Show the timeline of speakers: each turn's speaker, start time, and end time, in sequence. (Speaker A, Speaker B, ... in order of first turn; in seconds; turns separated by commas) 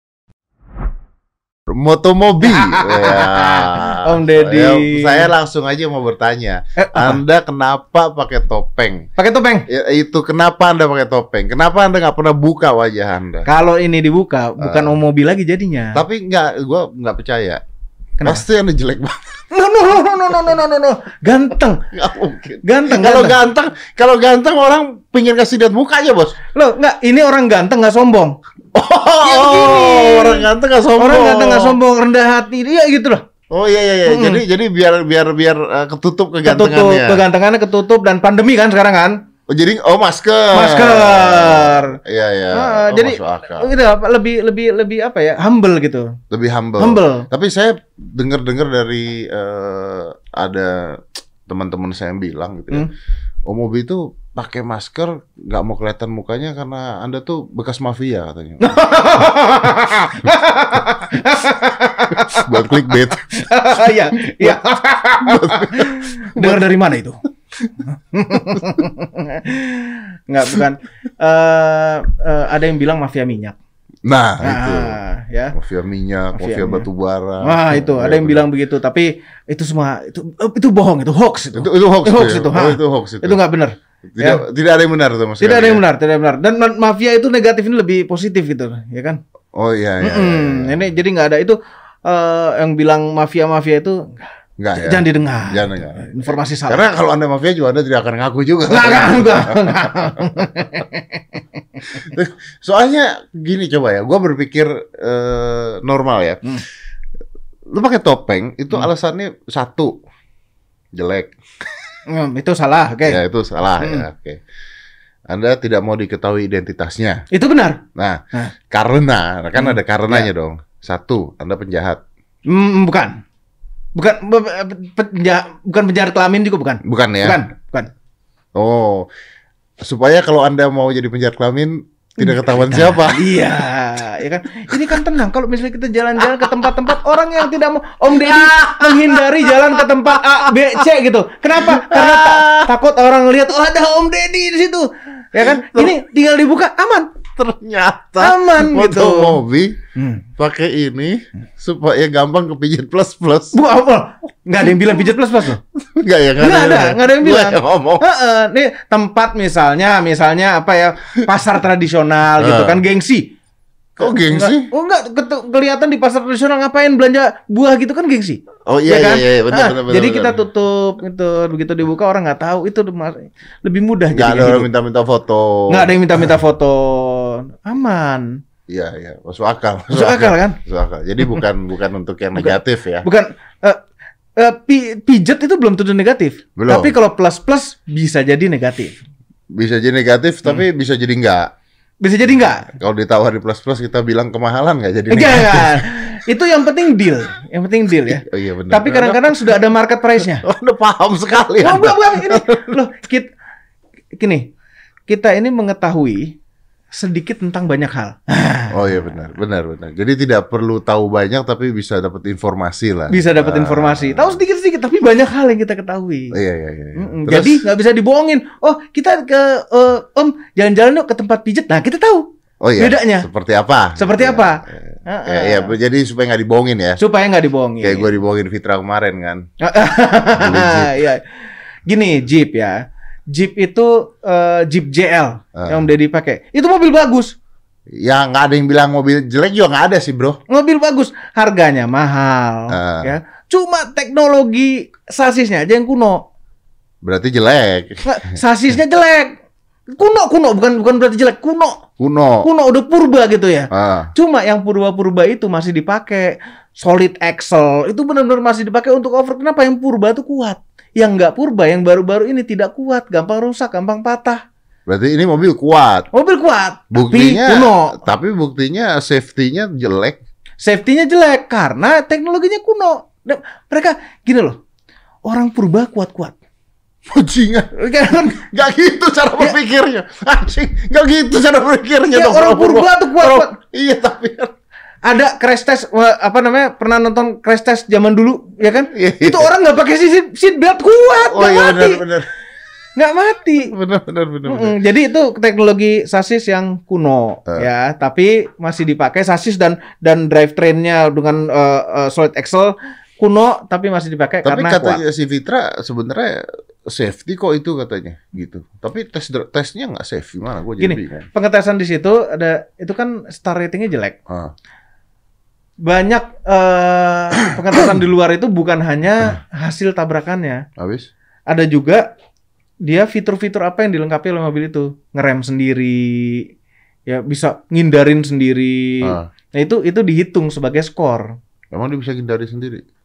Speaker A: 1.7-9.1, Speaker B: 2.4-5.3, Speaker B: 6.8-7.2, Speaker B: 9.2-9.7, Speaker A: 9.7-13.5, Speaker B: 13.4-16.0, Speaker A: 14.6-14.9, Speaker A: 15.9-17.6, Speaker B: 18.2-18.4, Speaker A: 18.2-19.4, Speaker B: 19.5-21.8, Speaker A: 21.9-26.4, Speaker B: 22.6-23.4, Speaker B: 26.5-28.4, Speaker A: 28.7-31.8, Speaker B: 29.2-33.2, Speaker A: 33.5-37.2, Speaker B: 34.0-34.4, Speaker B: 36.4-39.2, Speaker A: 39.5-43.7, Speaker B: 40.5-42.0, Speaker B: 42.5-46.2, Speaker A: 46.3-52.9, Speaker B: 46.8-47.3, Speaker A: 53.5-58.8, Speaker B: 58.6-67.2, Speaker A: 62.1-64.6, Speaker A: 65.2-66.6, Speaker B: 67.8-73.6, Speaker A: 68.5-68.8, Speaker A: 74.1-75.0, Speaker B: 74.4-75.5, Speaker A: 75.5-78.5, Speaker B: 76.3-76.9, Speaker B: 77.4-84.4, Speaker A: 81.5-83.4, Speaker A: 84.1-85.8, Speaker B: 85.4-89.2, Speaker A: 89.6-90.9, Speaker B: 90.0-96.9, Speaker A: 94.6-100.7, Speaker B: 98.7-101.4, Speaker A: 101.9-106.6, Speaker A: 107.7-109.9, Speaker A: 110.9-111.3, Speaker B: 112.1-113.2, Speaker A: 113.1-114.4, Speaker B: 113.8-114.0, Speaker A: 115.3-117.2, Speaker B: 117.3-117.8, Speaker A: 118.0-122.0, Speaker B: 119.6-120.3, Speaker B: 122.5-123.2, Speaker B: 123.9-127.9, Speaker A: 126.8-127.4, Speaker A: 128.6-129.1, Speaker A: 129.8-133.3, Speaker B: 132.2-147.1, Speaker A: 134.7-135.0, Speaker A: 136.3-137.1, Speaker A: 138.1-140.8, Speaker A: 141.6-142.7, Speaker A: 145.4-146.0, Speaker A: 147.3-149.8, Speaker B: 148.2-149.4, Speaker B: 149.9-150.2, Speaker A: 150.4-153.6, Speaker B: 153.5-155.6, Speaker A: 155.8-158.1, Speaker B: 156.4-163.3, Speaker A: 162.4-162.8, Speaker A: 164.0-164.7, Speaker B: 164.0-174.7, Speaker A: 168.7-170.4, Speaker A: 174.1-176.3, Speaker B: 175.7-178.4, Speaker A: 178.7-183.1, Speaker B: 179.9-180.6, Speaker B: 182.4-183.8, Speaker B: 184.4-189.0, Speaker A: 186.6-186.9, Speaker A: 189.5-191.5, Speaker B: 192.0-192.7, Speaker A: 192.7-196.2, Speaker B: 195.1-200.4, Speaker A: 198.0-199.6, Speaker A: 200.2-202.8, Speaker B: 201.6-203.3, Speaker B: 204.2-204.5, Speaker B: 205.1-206.4, Speaker B: 206.9-209.0, Speaker A: 208.7-214.4, Speaker B: 213.1-216.3, Speaker A: 216.3-217.6, Speaker B: 217.0-222.3, Speaker A: 222.6-227.0, Speaker B: 222.8-223.3, Speaker B: 224.0-225.7, Speaker B: 227.0-228.1, Speaker A: 227.8-229.4, Speaker B: 229.6-231.2, Speaker A: 230.3-231.0, Speaker B: 231.9-237.3, Speaker A: 235.6-235.9, Speaker A: 237.9-240.4, Speaker B: 240.5-246.2, Speaker A: 242.7-243.2, Speaker A: 247.0-248.4, Speaker B: 248.1-249.3, Speaker B: 249.9-251.8, Speaker A: 252.0-252.5, Speaker B: 252.4-264.4, Speaker A: 253.7-254.1, Speaker A: 264.9-266.1, Speaker B: 266.1-268.0, Speaker A: 266.9-270.2, Speaker B: 270.6-274.6, Speaker B: 275.2-276.3, Speaker A: 277.1-284.5, Speaker B: 277.7-278.5, Speaker B: 282.1-283.5, Speaker B: 285.0-292.0, Speaker A: 288.9-289.5, Speaker A: 291.3-292.3, Speaker B: 292.9-293.7, Speaker A: 293.6-294.8, Speaker B: 294.4-305.0, Speaker A: 304.4-311.3, Speaker B: 310.8-314.2, Speaker A: 314.3-314.5, Speaker B: 315.8-320.6, Speaker A: 320.8-321.1, Speaker B: 321.5-322.1, Speaker B: 322.8-326.5, Speaker B: 327.1-331.3, Speaker A: 329.0-329.3, Speaker A: 331.7-332.8